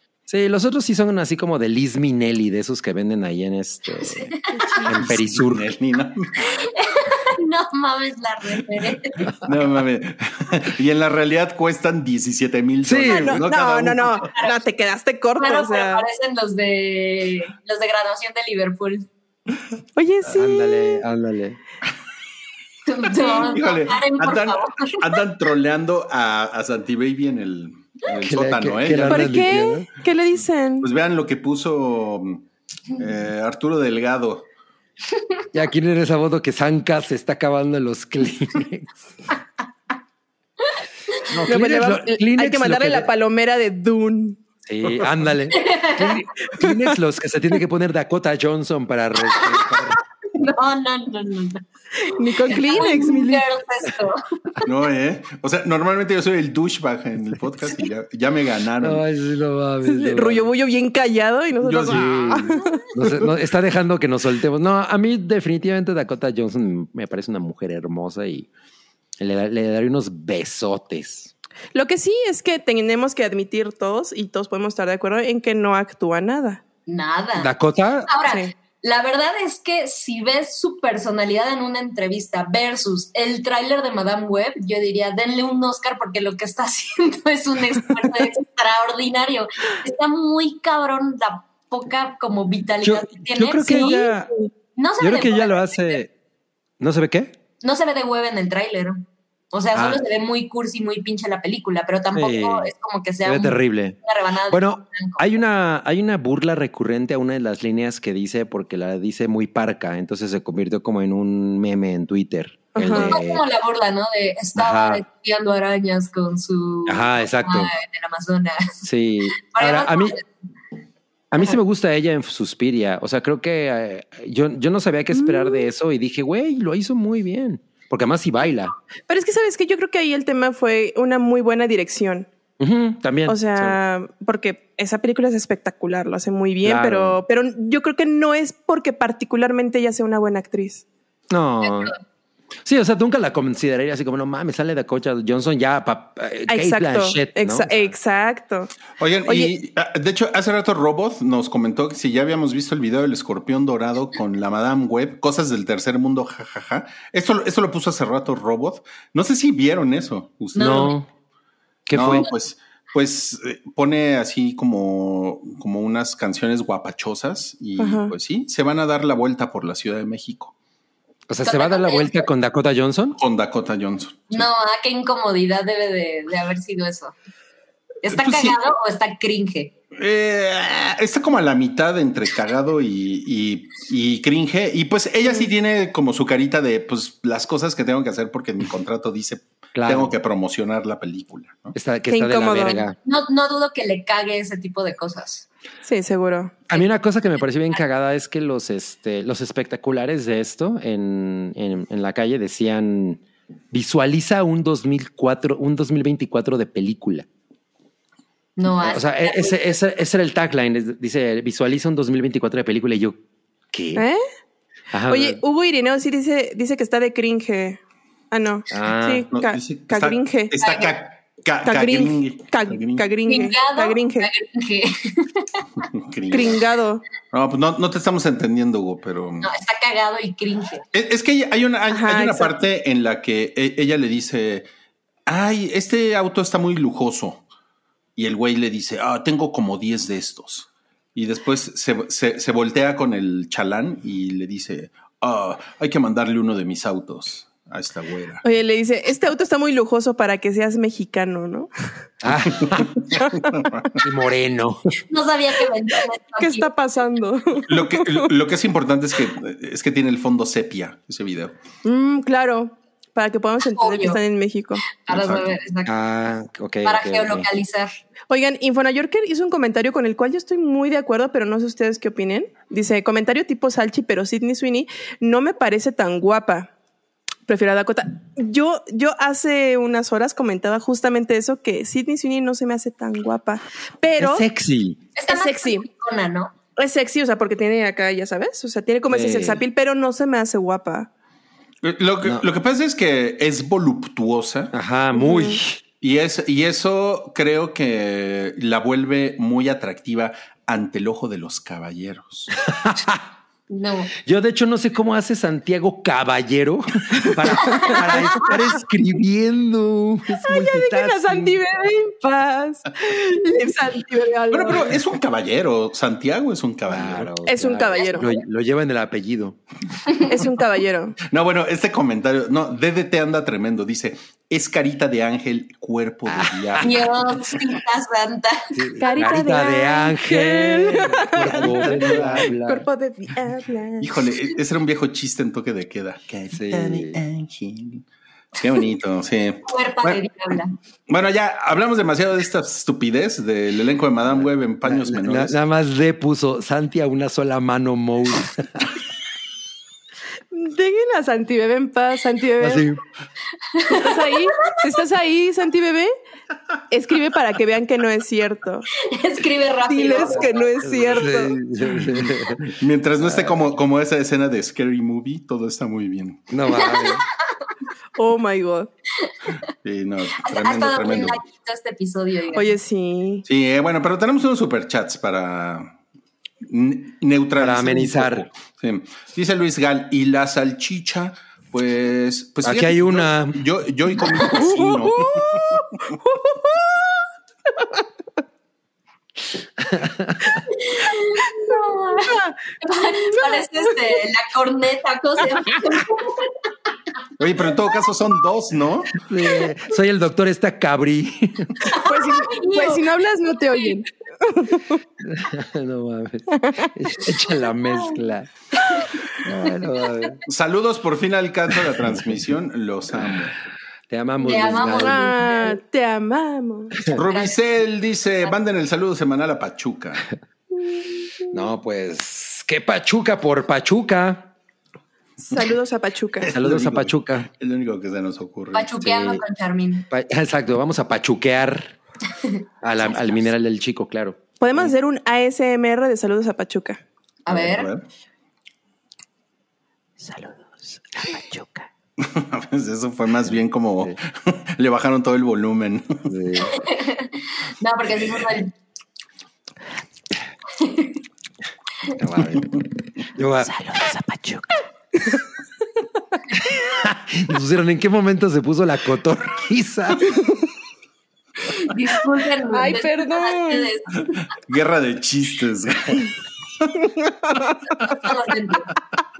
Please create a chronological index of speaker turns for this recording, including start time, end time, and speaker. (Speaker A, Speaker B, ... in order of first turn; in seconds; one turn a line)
Speaker A: 0.3-4.3
Speaker B: 4.6-5.0
Speaker A: 4.9-5.7
Speaker C: 4.9-6.7
Speaker D: 6.4-9.3
Speaker C: 9.4-14.3
Speaker A: 12.8-13.5
Speaker B: 13.1-16.0
Speaker D: 14.3-14.6
Speaker D: 15.4-19.1
Speaker B: 20.0-21.0
Speaker A: 20.3-21.6
Speaker D: 22.9-25.0
Speaker C: 23.2-29.6
Speaker A: 28.2-29.9
Speaker B: 29.1-30.9
Speaker C: 30.8-32.4
Speaker C: 33.0-34.5
Speaker A: 35.5-39.0
Speaker A: 41.3-43.1
Speaker B: 41.5-44.4
Speaker A: 44.7-50.0
Speaker D: 45.5-46.1
Speaker B: 46.6-46.9
Speaker D: 50.4-54.6
Speaker B: 52.0-53.5
Speaker C: 54.6-59.0
Speaker A: 58.8-60.5
Speaker B: 59.9-62.8
Speaker C: 61.6-62.5
Speaker A: 61.9-68.5
Speaker A: 69.2-71.3
Speaker B: 71.7-76.6
Speaker D: 76.9-77.5
Speaker A: 77.4-78.1
Speaker D: 78.1-94.1
Speaker B: 78.3-78.5
Speaker A: 92.8-94.3
Speaker B: 93.8-94.5
Speaker D: 94.8-96.0
Speaker A: 95.0-96.1
Speaker A: 96.8-97.3
Speaker D: 97.6-105.2
Speaker A: 99.7-100.0
Speaker A: 102.1-102.7
Speaker A: 103.2-104.0
Speaker A: 104.5-113.4
Speaker B: 112.8-113.2
Speaker D: 112.9-118.8
Speaker A: 114.6-115.0
Speaker A: 116.9-117.7
Speaker A: 118.8-120.2
Speaker D: 119.5-120.2
Speaker A: 121.3-128.7
Speaker B: 125.1-125.7
Speaker B: 129.1-132.3
Speaker A: 132.6-133.8
Speaker B: 133.3-140.8
Speaker A: 136.6-137.2
Speaker A: 141.3-141.9
Speaker D: 141.6-142.0
Speaker A: 142.7-147.9
Speaker B: 146.5-148.7
Speaker C: 149.0-161.0
Speaker D: 160.6-160.9
Speaker A: 160.6-161.1
Speaker A: 161.9-162.3
Speaker C: 161.9-170.5
Speaker B: 167.8-168.1
Speaker A: 171.3-173.2
Speaker D: 171.4-172.3
Speaker C: 173.2-174.5
Speaker D: 174.3-177.1
Speaker D: 178.0-179.7
Speaker C: 178.1-178.6
Speaker C: 180.0-191.8
Speaker A: 189.8-190.2
Speaker A: 191.8-193.0
Speaker B: 192.1-192.8
Speaker D: 193.1-195.5
Speaker B: 195.8-196.6
Speaker A: 196.7-203.2
Speaker A: 203.7-207.3
Speaker D: 208.6-209.6
Speaker A: 208.8-213.2
Speaker A: 213.7-214.1
Speaker B: 214.0-214.2
Speaker A: 214.9-215.4
Speaker B: 215.1-217.8
Speaker B: 218.3-220.5
Speaker A: 218.7-219.3
Speaker C: 219.3-223.1
Speaker D: 220.6-220.9
Speaker B: 221.6-224.3
Speaker D: 223.3-225.8
Speaker C: 225.9-226.6
Speaker B: 226.3-227.0
Speaker C: 227.3-229.5
Speaker D: 229.4-230.8
Speaker C: 230.9-234.7
Speaker B: 231.9-232.6
Speaker C: 235.3-237.4
Speaker C: 238.2-248.4
Speaker B: 248.4-251.7
Speaker A: 252.2-252.9
Speaker C: 252.5-254.0
Speaker B: 253.1-253.5
Speaker A: 254.0-254.8
Speaker D: 255.1-256.7
Speaker B: 256.4-258.3
Speaker C: 257.7-261.6
Speaker B: 261.8-264.8
Speaker D: 263.7-264.2
Speaker D: 265.0-265.9
Speaker C: 265.1-265.5
Speaker A: 265.9-267.5
Speaker D: 266.8-267.9
Speaker B: 268.3-276.7
Speaker B: 277.5-284.4
Speaker A: 284.2-285.0
Speaker D: 285.2-286.5
Speaker B: 285.3-285.9
Speaker B: 286.8-291.1
Speaker A: 289.1-289.6
Speaker C: 291.8-294.7
Speaker A: 292.2-292.5
Speaker A: 294.7-295.8
Speaker B: 295.1-295.6
Speaker C: 296.0-302.6
Speaker A: 302.6-303.2
Speaker D: 303.7-304.1
Speaker A: 304.2-311.6
Speaker B: 307.5-308.5
Speaker D: 307.8-308.1
Speaker B: 310.4-315.0
Speaker C: 314.5-317.3
Speaker A: 316.9-319.6
Speaker B: 317.4-318.3
Speaker D: 317.9-318.4
Speaker B: 320.3-321.2
Speaker C: 321.3-327.1
Speaker A: 326.3-326.9
Speaker D: 326.8-328.6
Speaker A: 328.7-332.9
Speaker B: 329.0-334.3
Speaker C: 331.5-332.5
Speaker C: 334.0-340.2
Speaker A: 336.5-337.2
Speaker D: 339.7-340.8
Speaker C: 341.1-345.6
Speaker A: 344.3-348.9
Speaker B: 350.5-352.8
Speaker A: 352.6-353.0
Speaker D: 353.8-354.3
Speaker B: 353.9-356.1
Speaker B: 356.9-358.9
Speaker D: 359.0-360.7
Speaker B: 359.9-361.6
Speaker A: 360.1-363.6
Speaker C: 361.9-366.5
Speaker A: 366.5-367.2
Speaker D: 366.8-367.2
Speaker B: 368.2-368.9
Speaker C: 369.8-371.4
Speaker D: 370.4-372.8
Speaker B: 372.5-373.4
Speaker C: 373.5-375.9
Speaker C: 376.6-385.8
Speaker A: 377.6-378.5
Speaker A: 382.6-383.6
Speaker B: 384.5-387.1
Speaker A: 389.8-390.6
Speaker D: 390.7-396.5
Speaker B: 391.7-393.9
Speaker C: 397.4-399.3
Speaker A: 399.2-401.8
Speaker D: 401.8-403.1
Speaker B: 402.0-405.0
Speaker A: 405.2-408.5
Speaker B: 406.6-406.9
Speaker A: 409.4-410.4
Speaker C: 410.5-413.6
Speaker A: 414.1-415.4
Speaker D: 414.4-415.8
Speaker B: 414.8-417.0
Speaker C: 417.1-420.3
Speaker D: 417.1-417.6
Speaker A: 421.5-424.5
Speaker B: 425.5-426.5
Speaker C: 426.4-428.9
Speaker A: 426.5-427.5
Speaker D: 428.7-430.1
Speaker A: 429.0-429.4
Speaker A: 430.1-431.9
Speaker A: 432.8-434.4
Speaker B: 434.6-437.0
Speaker D: 437.4-437.9
Speaker C: 437.5-438.0
Speaker A: 440.2-441.9
Speaker C: 442.2-446.3
Speaker A: 446.3-446.7
Speaker D: 446.8-448.7
Speaker D: 450.8-451.2
Speaker A: 452.2-454.7
Speaker A: 456.9-460.4
Speaker D: 461.7-464.4
Speaker B: 462.7-463.9
Speaker C: 464.6-466.9
Speaker B: 467.4-467.8
Speaker D: 468.0-468.9